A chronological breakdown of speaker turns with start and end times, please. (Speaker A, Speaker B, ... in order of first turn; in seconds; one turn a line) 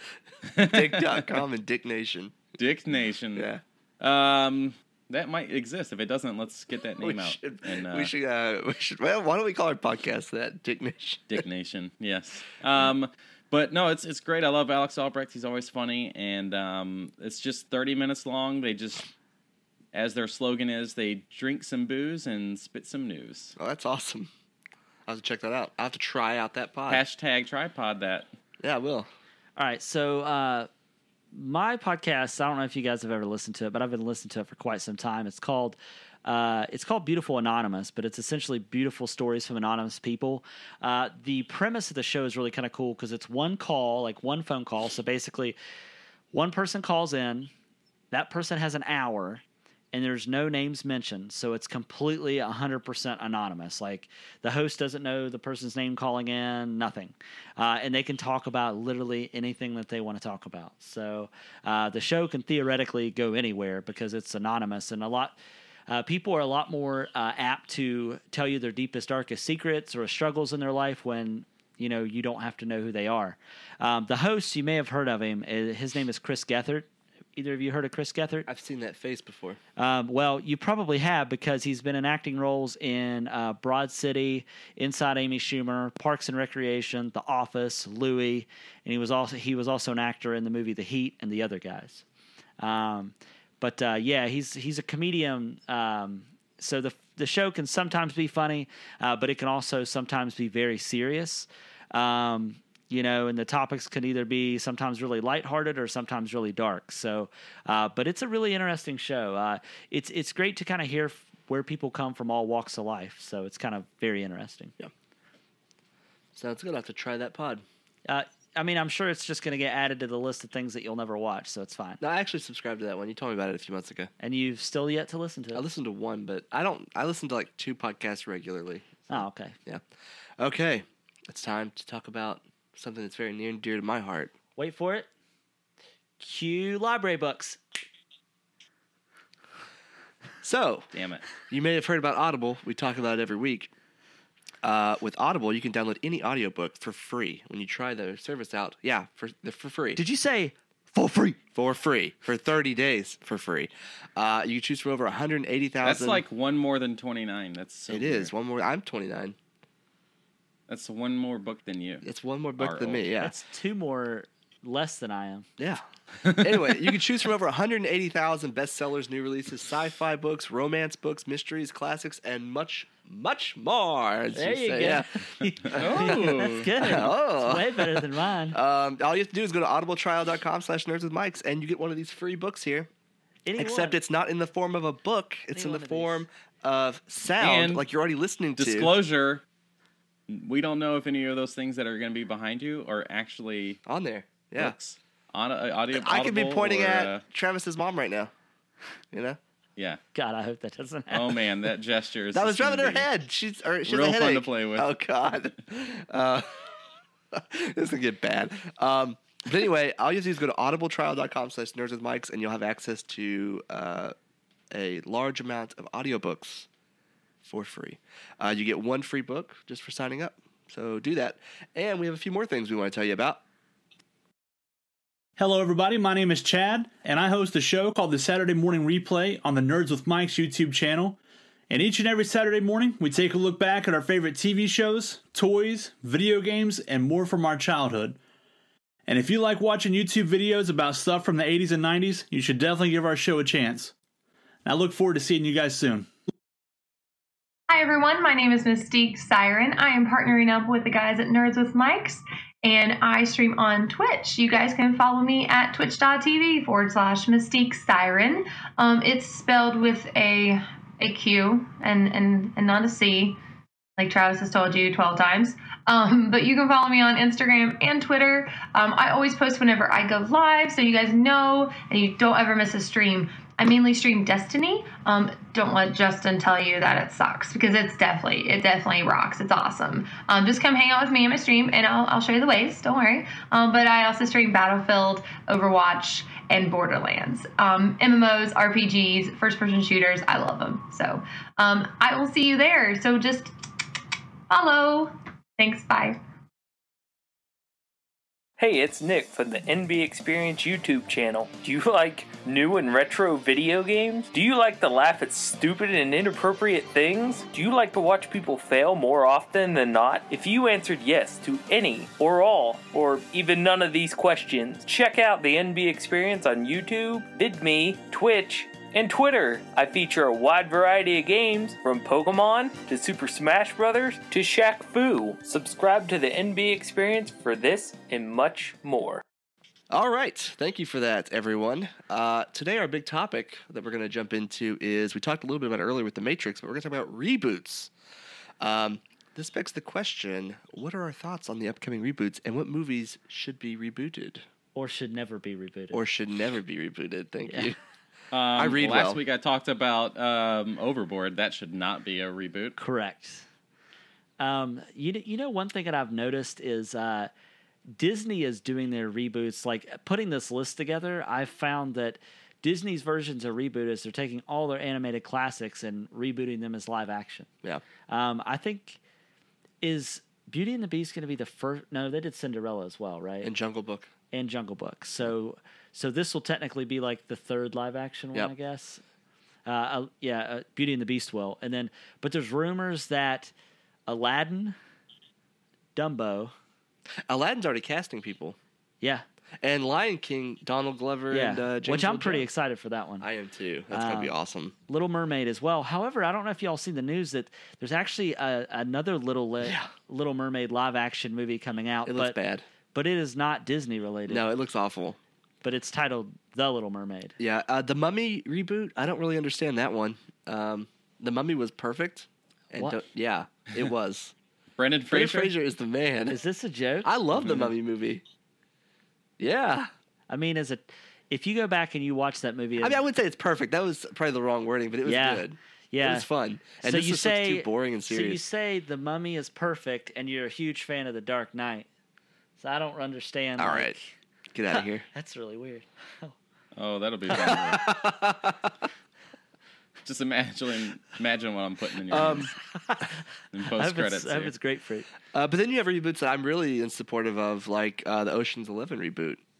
Speaker A: 0.4-1.4
Speaker B: 0.6-2.4
Speaker A: 2.5-3.5
Speaker B: 3.3-3.6
Speaker A: 4.0-8.1
Speaker B: 7.0-11.4
Speaker A: 11.3-19.1
Speaker A: 19.9-23.6
Speaker B: 23.6-24.3
Speaker B: 25.1-27.0
Speaker A: 26.9-28.3
Speaker B: 28.6-29.1
Speaker C: 29.6-30.7
Speaker C: 31.3-45.5
Speaker C: 46.3-47.5
Speaker C: 48.1-65.3
Speaker C: 65.9-78.5
Speaker B: 78.5-79.6
Speaker C: 79.8-92.0
Speaker C: 92.6-114.7
Speaker B: 116.3-117.6
Speaker C: 118.0-122.0
Speaker B: 122.0-124.1
Speaker C: 124.2-125.6
Speaker B: 125.5-129.8
Speaker C: 129.1-129.5
Speaker B: 130.4-134.3
Speaker C: 134.6-135.1
Speaker C: 136.2-137.6
Speaker B: 140.4-140.9
Speaker A: 140.9-141.2
Speaker B: 141.5-143.7
Speaker B: 144.6-150.0
Speaker C: 150.0-151.4
Speaker B: 151.5-156.2
Speaker A: 155.8-158.3
Speaker B: 157.9-159.3
Speaker A: 160.7-162.1
Speaker B: 162.0-163.3
Speaker A: 162.6-163.0
Speaker C: 163.2-165.4
Speaker B: 165.6-175.1
Speaker A: 166.2-166.9
Speaker C: 174.3-178.6
Speaker B: 175.6-182.9
Speaker A: 175.7-176.7
Speaker C: 183.4-184.0
Speaker B: 183.6-188.9
Speaker C: 185.5-186.2
Speaker A: 187.4-187.8
Speaker A: 188.6-189.4
Speaker A: 190.3-193.8
Speaker B: 193.8-194.7
Speaker A: 194.6-197.2
Speaker B: 195.9-198.3
Speaker B: 199.1-199.4
Speaker C: 200.1-201.4
Speaker A: 201.1-203.1
Speaker B: 202.3-206.5
Speaker A: 203.8-204.9
Speaker B: 207.3-214.1
Speaker B: 214.7-216.7
Speaker B: 217.4-223.4
Speaker D: 225.4-231.2
Speaker D: 231.7-238.2
Speaker D: 239.1-243.9
Speaker D: 244.6-246.1
Speaker E: 247.7-263.4
Speaker E: 264.0-293.5
Speaker E: 294.5-296.2
Speaker F: 298.6-329.2
Speaker B: 329.9-337.9
Speaker B: 338.6-344.4
Speaker C: 344.7-346.0
Speaker B: 345.9-347.8
Speaker A: 348.3-352.8
Speaker B: 348.5-349.2
Speaker C: 352.8-353.4
Speaker C: 354.4-357.3
Speaker C: 357.9-367.5
Speaker C: 368.1-369.0
Speaker C: 369.8-373.5
Speaker B: 373.4-374.1
Speaker C: 374.3-379.0
Speaker C: 379.6-383.5
Speaker C: 384.1-384.7
Speaker C: 385.9-386.5
Speaker B: 387.3-388.6
Speaker B: 389.6-392.4
Speaker C: 391.3-393.2
Speaker B: 393.2-394.7
Speaker C: 393.9-394.3
Speaker C: 394.9-402.4
Speaker B: 399.6-399.9
Speaker B: 402.1-402.6
Speaker C: 402.9-404.4
Speaker B: 404.3-405.2
Speaker C: 405.6-407.4
Speaker B: 407.4-414.3
Speaker A: 414.8-415.5
Speaker B: 415.1-416.4
Speaker C: 416.3-417.1
Speaker B: 417.0-418.2
Speaker B: 419.4-419.9
Speaker C: 420.3-423.0
Speaker B: 422.8-428.4
Speaker C: 425.0-426.3
Speaker C: 426.8-431.9
Speaker C: 432.6-434.0
Speaker B: 433.6-433.9
Speaker B: 434.5-435.0
Speaker C: 435.1-436.3
Speaker A: 436.8-437.8
Speaker B: 437.3-438.7
Speaker A: 440.0-442.5
Speaker B: 442.1-442.5
Speaker C: 442.7-443.1
Speaker A: 443.5-444.5
Speaker C: 443.7-445.1
Speaker B: 445.3-449.4